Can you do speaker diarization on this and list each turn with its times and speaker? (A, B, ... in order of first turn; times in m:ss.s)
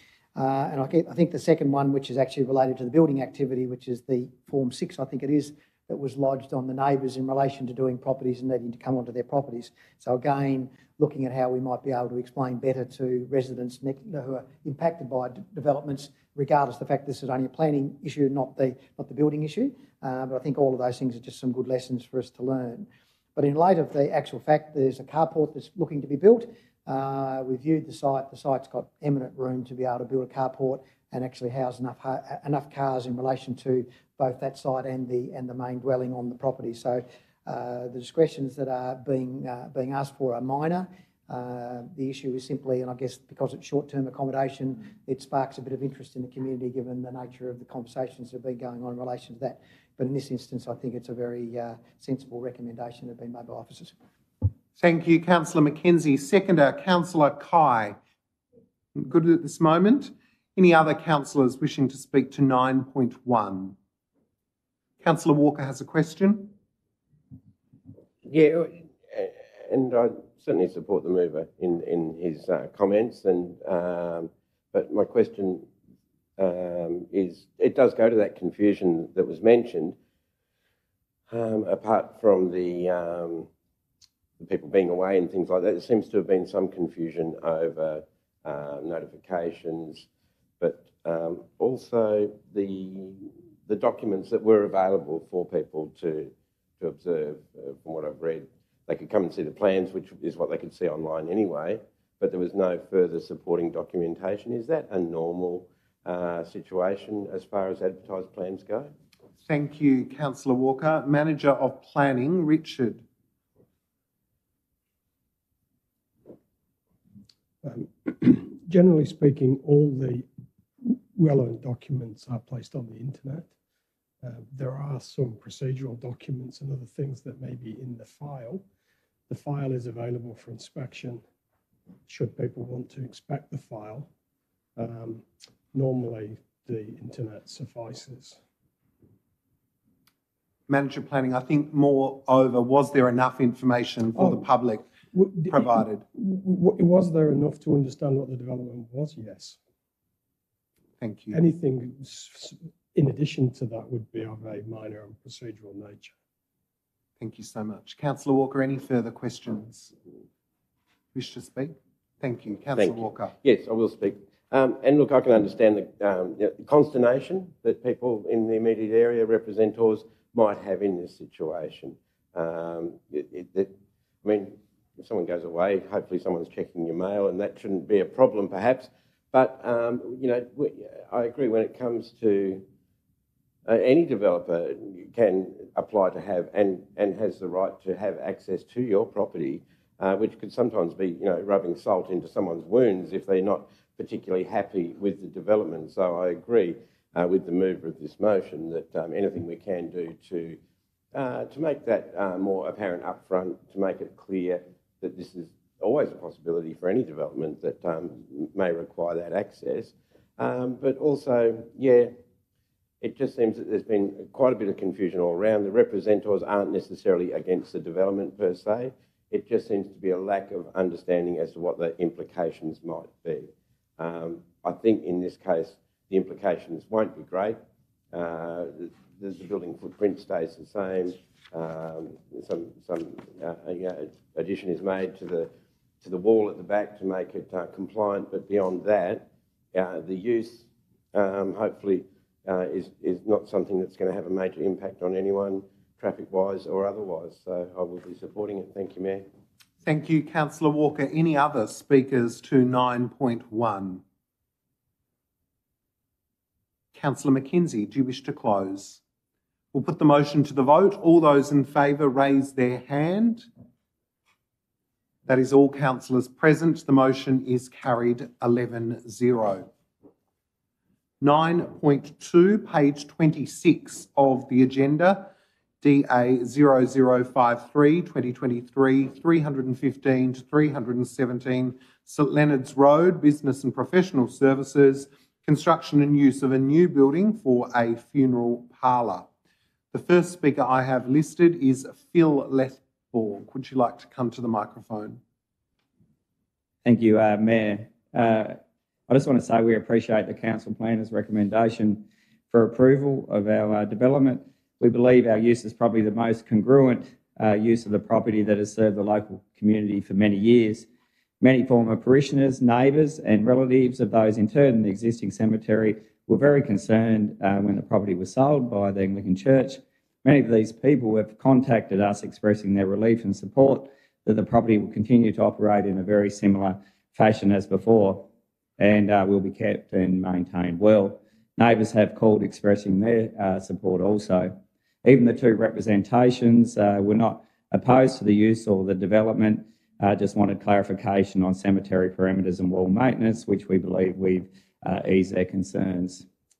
0:00.4-0:53.9 A
0:54.8-0:58.0 B
0:58.9-1:03.8 B
1:05.0-1:06.5 B
1:08.2-1:15.7 C
1:16.4-1:20.0 C
1:21.3-1:23.5 C
1:24.4-1:30.1 C
1:30.6-1:48.9 C
1:49.4-1:53.0 B
1:57.6-2:00.3 D
2:00.8-2:03.5 D
2:04.2-2:08.6 D
2:09.3-2:11.2 D
2:12.1-2:14.1 D
2:14.8-2:18.4 D
2:20.7-2:24.8 B
2:24.1-2:24.5 D
2:25.1-2:29.6 D
2:25.4-2:26.0 B
2:31.0-2:31.4 B
2:31.3-2:36.2 D
2:37.2-2:39.9 B
2:41.1-2:43.3 B
2:42.8-3:02.6 C
3:03.6-3:20.6 C
3:21.1-3:32.1 C
3:33.0-3:47.6 C
3:48.1-3:55.5 C
3:56.0-4:09.2 C
4:09.8-4:14.0 B
4:16.9-4:19.0 B
4:19.7-4:23.5 B
4:25.2-4:29.7 B
4:31.2-4:49.3 B
4:49.9-4:55.2 B
4:56.8-5:10.9 E
5:11.4-5:46.2 E